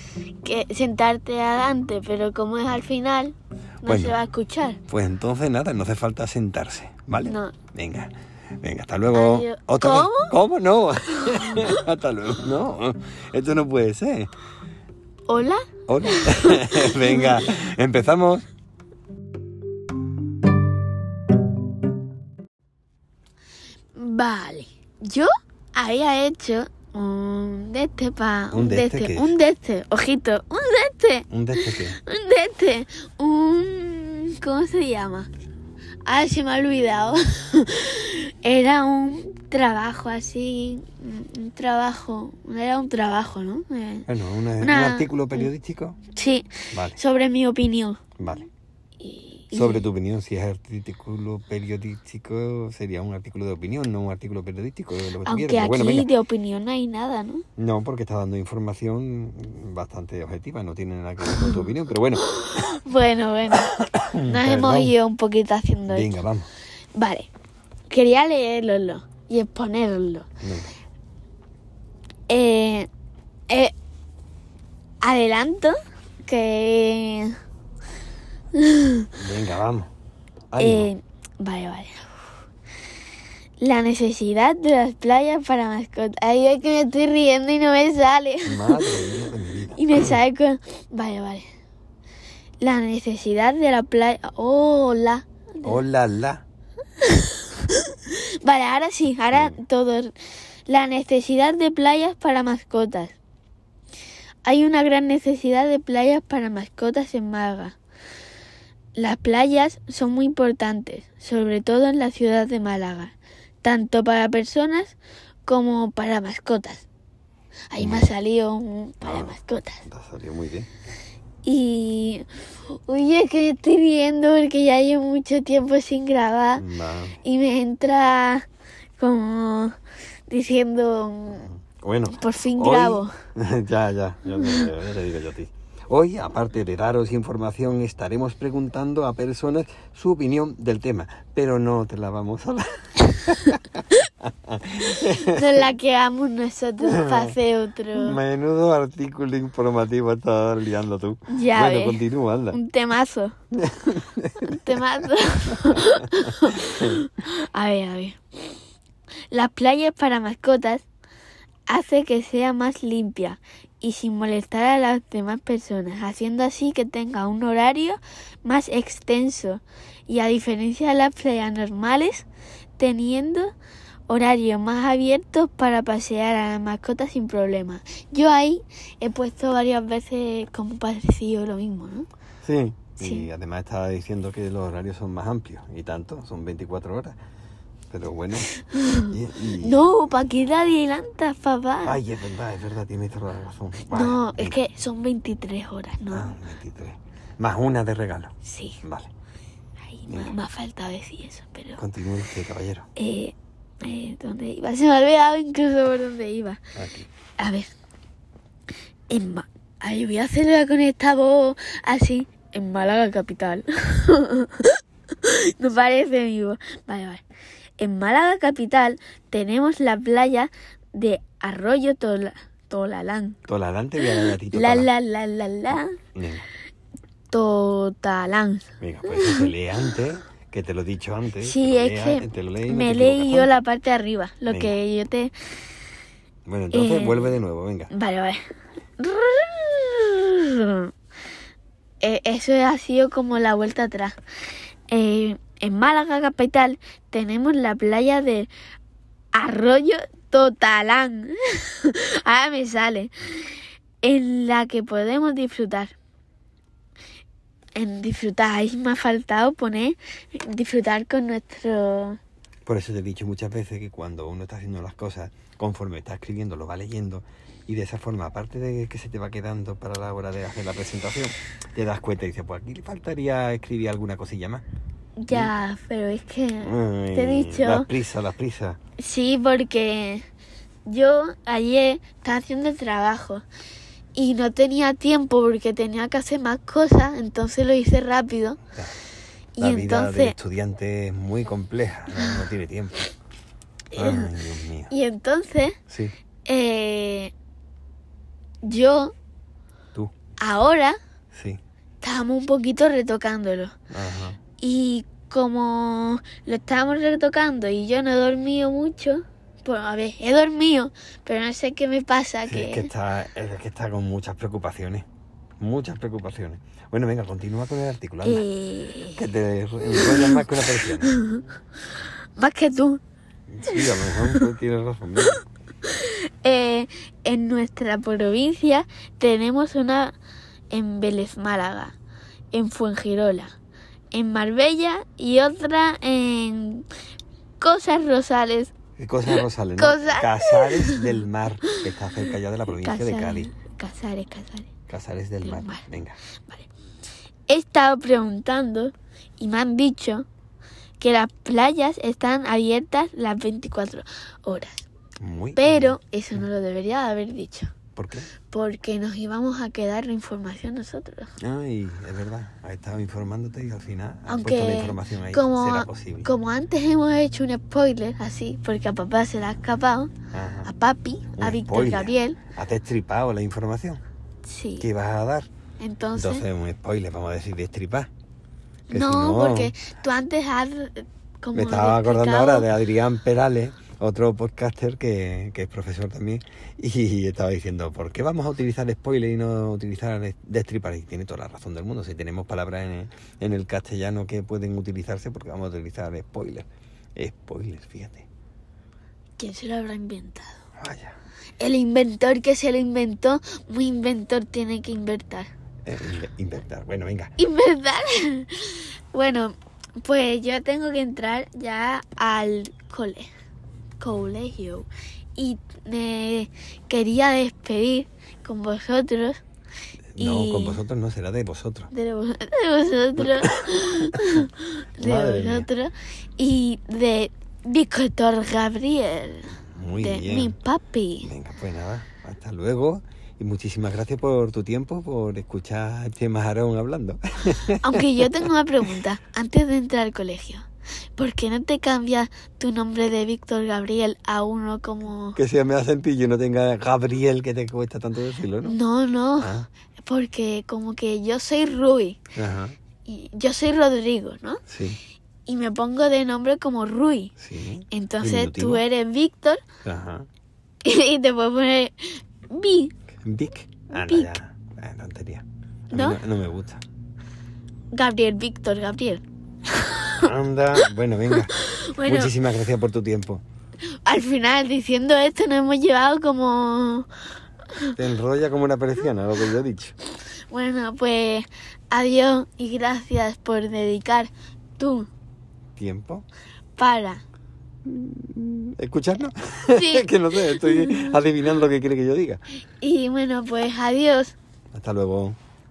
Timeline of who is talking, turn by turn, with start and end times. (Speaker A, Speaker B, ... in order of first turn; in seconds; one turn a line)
Speaker A: 0.4-4.8
Speaker B: 3.8-4.2
Speaker B: 4.9-14.3
Speaker A: 7.2-7.5
Speaker A: 9.1-10.3
Speaker A: 11.4-11.7
Speaker A: 15.3-17.4
Speaker B: 15.9-18.4
Speaker A: 24.0-35.3
Speaker B: 28.5-29.3
Speaker B: 31.3-32.0
Speaker A: 36.0-44.1
Speaker B: 44.1-46.0
Speaker A: 44.6-45.5
Speaker A: 46.1-48.0
Speaker B: 46.7-47.0
Speaker B: 48.2-48.5
Speaker A: 49.0-49.8
Speaker B: 49.5-56.1
Speaker A: 55.2-57.5
Speaker B: 57.6-62.4
Speaker A: 62.3-63.7
Speaker B: 63.5-65.0
Speaker A: 64.2-66.1
Speaker B: 65.9-66.5
Speaker A: 67.0-67.3
Speaker A: 67.9-70.3
Speaker B: 70.4-70.7
Speaker A: 72.3-72.9
Speaker A: 75.0-77.3
Speaker A: 78.5-79.1
Speaker B: 79.2-79.9
Speaker B: 80.5-80.9
Speaker A: 80.6-82.0
Speaker A: 83.6-89.1
Speaker B: 88.5-90.1
Speaker A: 89.7-91.5
Speaker A: 92.6-95.8
Speaker B: 95.6-96.4
Speaker A: 97.0-100.1
Speaker B: 99.3-99.6
Speaker A: 100.7-103.2
Speaker A: 104.4-107.8
Speaker A: 109.0-116.9
Speaker A: 117.7-119.8
Speaker B: 117.8-118.1
Speaker B: 119.0-120.7
Speaker A: 121.4-126.7
Speaker B: 126.6-127.2
Speaker A: 127.2-128.4
Speaker A: 129.0-129.8
Speaker A: 130.3-131.5
Speaker B: 131.5-145.6
Speaker A: 132.1-133.1
Speaker A: 134.4-134.7
Speaker A: 145.0-148.2
Speaker B: 146.8-147.4
Speaker B: 147.9-152.6
Speaker A: 151.3-153.3
Speaker B: 153.5-154.8
Speaker A: 154.4-158.2
Speaker A: 159.3-160.8
Speaker A: 161.7-172.2
Speaker A: 172.8-173.5
Speaker A: 174.1-182.1
Speaker B: 182.4-187.2
Speaker A: 183.0-183.3
Speaker B: 187.9-189.8
Speaker A: 188.6-192.0
Speaker B: 191.8-194.6
Speaker A: 193.9-196.4
Speaker B: 196.1-199.1
Speaker A: 198.4-198.8
Speaker A: 199.9-201.8
Speaker B: 200.1-200.3
Speaker B: 201.8-202.9
Speaker A: 202.9-206.6
Speaker B: 206.8-207.1
Speaker A: 207.4-207.7
Speaker A: 209.1-217.2
Speaker A: 217.8-223.4
Speaker B: 223.5-224.9
Speaker A: 224.0-226.0
Speaker B: 226.1-226.4
Speaker A: 227.3-229.5
Speaker B: 228.8-233.6
Speaker A: 231.4-235.3
Speaker B: 234.5-234.8
Speaker B: 236.4-237.9
Speaker A: 236.7-237.3
Speaker A: 237.9-238.4
Speaker A: 239.0-240.9
Speaker A: 242.0-244.2
Speaker A: 244.9-248.5
Speaker A: 249.3-255.9
Speaker A: 257.8-262.2
Speaker B: 262.6-274.6
Speaker A: 275.2-277.9
Speaker B: 276.6-278.8
Speaker A: 279.0-280.2
Speaker A: 280.9-283.4
Speaker A: 284.1-288.6
Speaker A: 289.6-290.3
Speaker B: 289.6-293.1
Speaker A: 292.1-292.4
Speaker A: 293.9-294.3
Speaker B: 293.9-294.9
Speaker A: 294.9-295.8
Speaker A: 296.4-297.3
Speaker A: 298.6-299.1
Speaker A: 300.4-301.0
Speaker B: 301.3-301.6
Speaker A: 302.0-303.8
Speaker B: 303.9-304.4
Speaker A: 304.6-312.9
Speaker B: 312.4-315.1
Speaker B: 315.6-318.4
Speaker A: 318.2-319.2
Speaker B: 319.1-321.2
Speaker A: 319.9-321.4
Speaker A: 322.4-323.0
Speaker B: 323.5-325.4
Speaker A: 323.6-324.5
Speaker A: 325.8-330.1
Speaker A: 330.7-331.9
Speaker A: 332.5-333.5
Speaker A: 334.1-336.9
Speaker A: 337.6-338.7
Speaker B: 339.0-343.5
Speaker A: 339.3-341.2
Speaker A: 342.7-344.7
Speaker B: 344.9-346.2
Speaker A: 345.4-345.8
Speaker A: 347.5-350.3
Speaker A: 351.0-354.9
Speaker B: 355.2-356.4
Speaker A: 355.6-357.7
Speaker B: 357.9-358.3
Speaker A: 358.5-361.3
Speaker B: 361.4-366.3
Speaker A: 364.3-370.1
Speaker B: 370.3-370.7
Speaker A: 370.6-372.4
Speaker B: 371.4-374.0
Speaker A: 374.4-374.9
Speaker B: 374.8-375.5
Speaker A: 375.8-376.4
Speaker B: 376.1-378.1
Speaker B: 378.9-379.7
Speaker A: 378.9-382.7
Speaker B: 381.6-398.3
Speaker A: 399.4-400.6
Speaker B: 400.8-401.2
Speaker A: 401.6-405.5
Speaker B: 405.9-407.3
Speaker A: 407.4-413.3
Speaker A: 414.0-419.4
Speaker B: 420.1-421.9
Speaker A: 420.2-420.8
Speaker A: 421.9-431.3
Speaker B: 423.2-423.7
Speaker B: 425.0-425.7
Speaker B: 429.6-430.6
Speaker B: 431.2-438.5
Speaker A: 437.8-440.6
Speaker A: 441.2-445.4
Speaker B: 445.4-448.8
Speaker A: 448.6-449.5
Speaker B: 449.4-449.7
Speaker A: 450.1-452.2
Speaker B: 452.3-452.8
Speaker A: 453.1-454.6
Speaker B: 454.7-455.0
Speaker A: 455.5-457.3
Speaker B: 457.4-458.8
Speaker A: 457.9-459.6
Speaker B: 459.8-460.3
Speaker A: 460.8-462.9
Speaker B: 463.2-466.8
Speaker A: 463.9-464.4
Speaker A: 465.9-466.2
Speaker A: 467.9-470.3
Speaker B: 470.2-473.4
Speaker A: 471.4-472.3
Speaker A: 474.1-477.1
Speaker B: 477.9-479.9
Speaker A: 480.5-485.1
Speaker B: 485.8-486.2
Speaker A: 486.8-487.2
Speaker B: 487.8-492.4
Speaker A: 489.7-491.2
Speaker A: 492.8-494.3
Speaker B: 494.7-495.4